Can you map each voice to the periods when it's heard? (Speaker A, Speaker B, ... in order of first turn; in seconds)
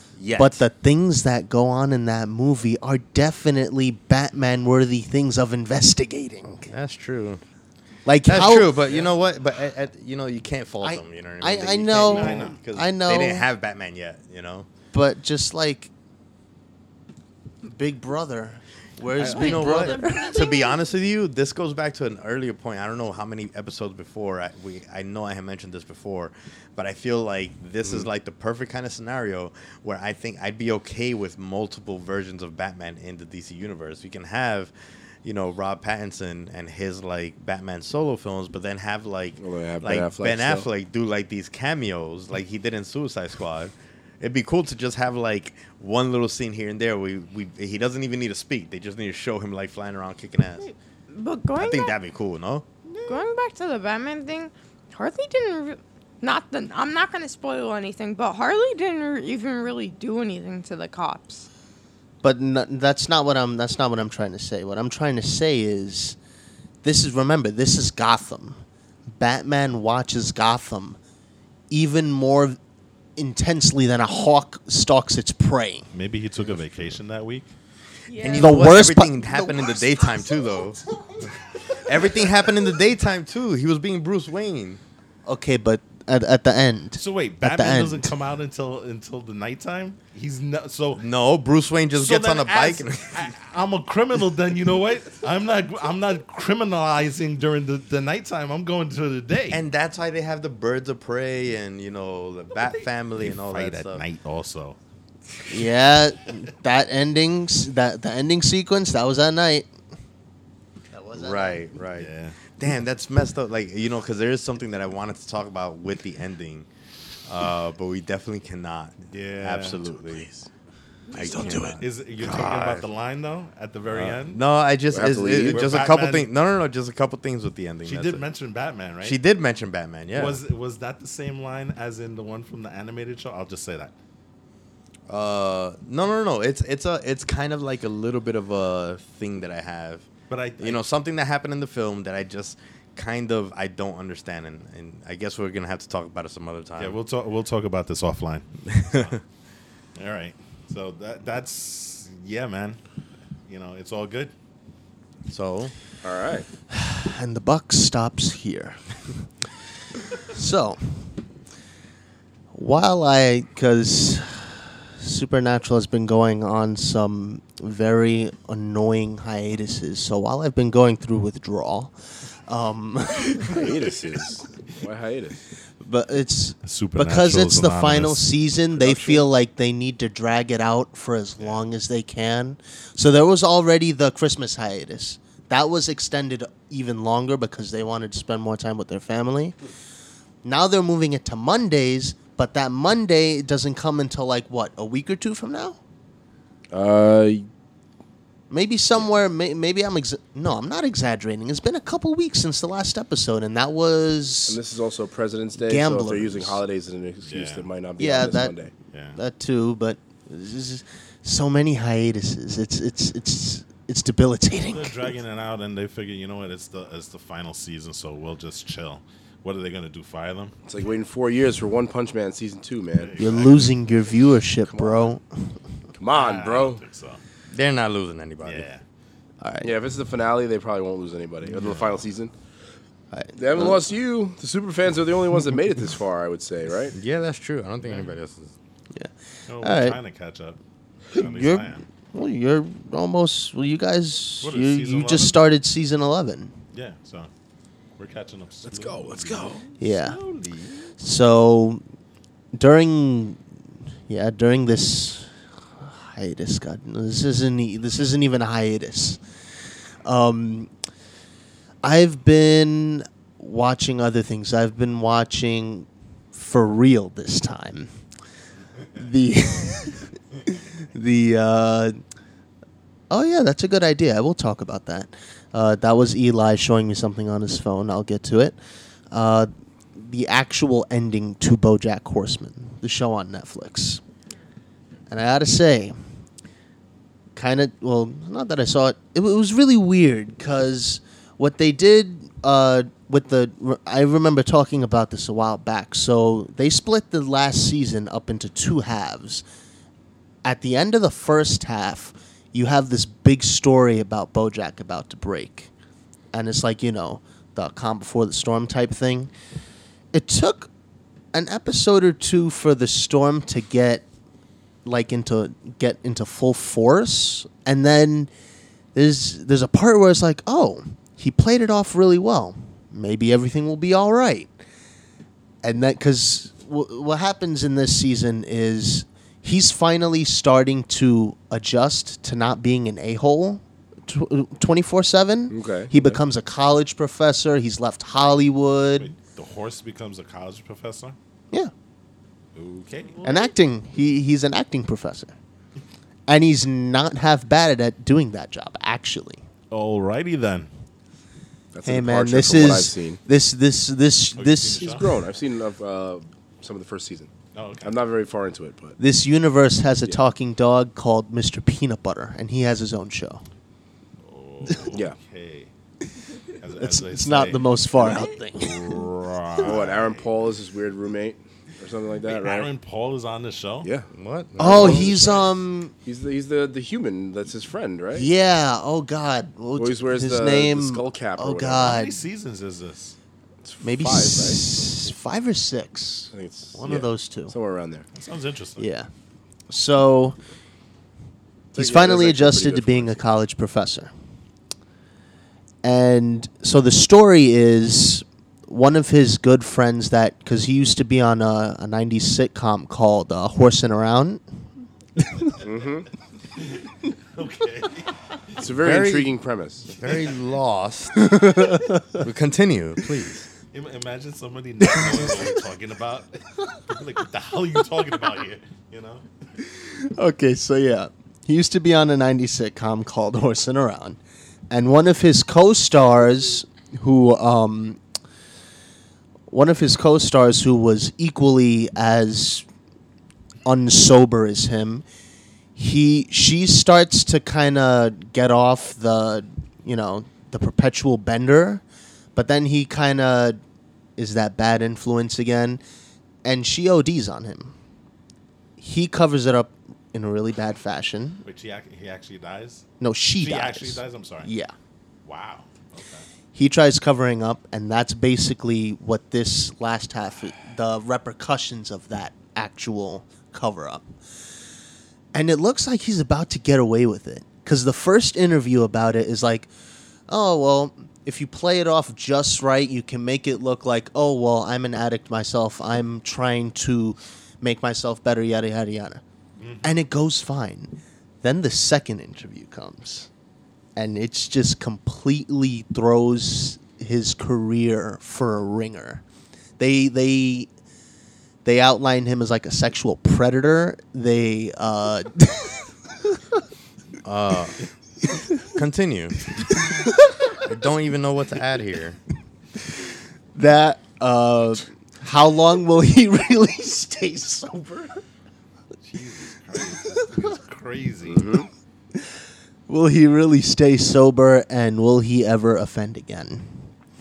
Speaker A: 0.2-0.6, 6.7-7.4, 8.2-14.7, 19.1-50.7, 51.5-52.6, 78.2-80.8, 81.7-84.8, 91.0-93.3, 99.5-104.0, 111.1-116.7, 117.2-120.5, 121.1-122.9, 123.9-128.2, 129.0-130.4, 135.1-140.1, 140.6-146.9, 148.7-149.2, 155.3-155.7, 227.5-228.7, 236.9-238.6, 374.1-375.1, 408.8-409.3, 409.9-413.5, 497.2-497.8, 498.7-499.5, 500.6-502.2
Speaker B: 0.3-6.7, 8.1-8.8, 10.8-13.5, 14.9-15.9, 17.6-20.4, 62.2-66.2, 66.8-71.0, 71.7-72.6, 73.2-75.9, 78.3-79.9, 85.2-88.1, 105.5-109.7, 110.9-111.6, 156.7-158.9, 160.2-161.0, 162.5-171.9, 172.5-173.7, 175.8-189.5, 190.4-195.8, 198.5-204.6, 205.6-206.6, 208.0-208.6, 209.1-215.1, 223.2-225.6, 229.4-229.7, 233.1-233.8, 238.9-240.0, 241.1-246.5, 249.8-250.2, 251.0-251.8, 252.5-253.4, 254.1-259.2, 260.0-260.7, 261.8-267.9, 268.9-272.0, 273.1-278.6, 279.1-284.0, 285.1-286.0, 287.3-299.4, 300.4-305.7, 306.3-309.3, 310.1-310.7, 311.3-314.0, 314.8-318.3, 318.9-324.5, 325.6-339.1, 343.2-345.3, 346.3-349.4, 351.8-354.9, 359.0-363.4, 366.8-369.0, 374.6-375.9, 378.1-382.2, 383.8-387.5, 388.8-389.1, 389.7-390.4, 391.7-394.1, 395.8-404.4, 405.2-405.5, 411.2-412.0, 414.9-415.2, 419.6-424.2, 424.7-428.0, 429.5-432.6, 433.6-435.0, 435.8-441.8, 442.3-443.6, 444.2-445.8, 446.4-447.7, 448.8-451.4, 453.0-454.7, 456.5-464.1, 465.3-469.7, 470.3-479.2, 479.8-483.3, 483.9-489.2, 489.8-490.7, 491.6-496.4, 503.5-508.2, 512.9-516.8
Speaker C: 12.0-12.6, 52.9-53.2, 75.9-77.5, 87.0-91.0, 91.9-99.6, 102.5-104.8, 112.0-112.4, 119.1-120.2, 121.8-124.4, 125.3-126.3, 127.8-129.2, 130.1-133.9, 140.3-140.8, 146.8-149.2, 150.0-152.8, 153.5-154.3, 176.6-178.2, 207.2-207.7, 208.9-209.2, 214.6-220.6, 223.0-223.7, 226.1-227.2, 228.4-228.8, 231.4-232.0, 237.9-238.1, 239.5-240.6, 241.1-241.8, 244.4-245.4, 246.7-247.3, 248.0-250.8, 338.9-341.1, 342.6-343.5, 349.7-350.7, 354.4-355.1, 357.5-357.9, 364.2-365.7, 366.6-370.3, 372.3-373.9, 381.9-383.1, 388.1-388.9, 406.6-408.6, 413.7-419.2, 451.4-452.9, 453.4-454.5, 455.2-456.2, 479.6-479.9, 509.1-511.5
Speaker D: 19.1-20.8, 51.1-52.0, 53.1-61.5, 78.1-78.8
Speaker E: 39.4-40.7, 121.2-121.8, 124.9-125.7, 156.0-156.5, 173.4-175.4, 178.7-179.2, 196.7-197.5, 204.5-208.7, 220.7-223.2, 224.6-225.1, 226.0-226.8, 229.6-232.3, 233.3-236.9, 248.7-249.6, 335.5-336.2, 351.7-353.2, 354.7-359.0, 364.9-365.1, 369.6-372.7, 373.8-375.4, 376.0-378.3, 379.8-382.0, 383.6-384.6, 386.3-388.1, 391.7-393.2, 405.6-406.1, 408.6-409.9, 511.3-511.7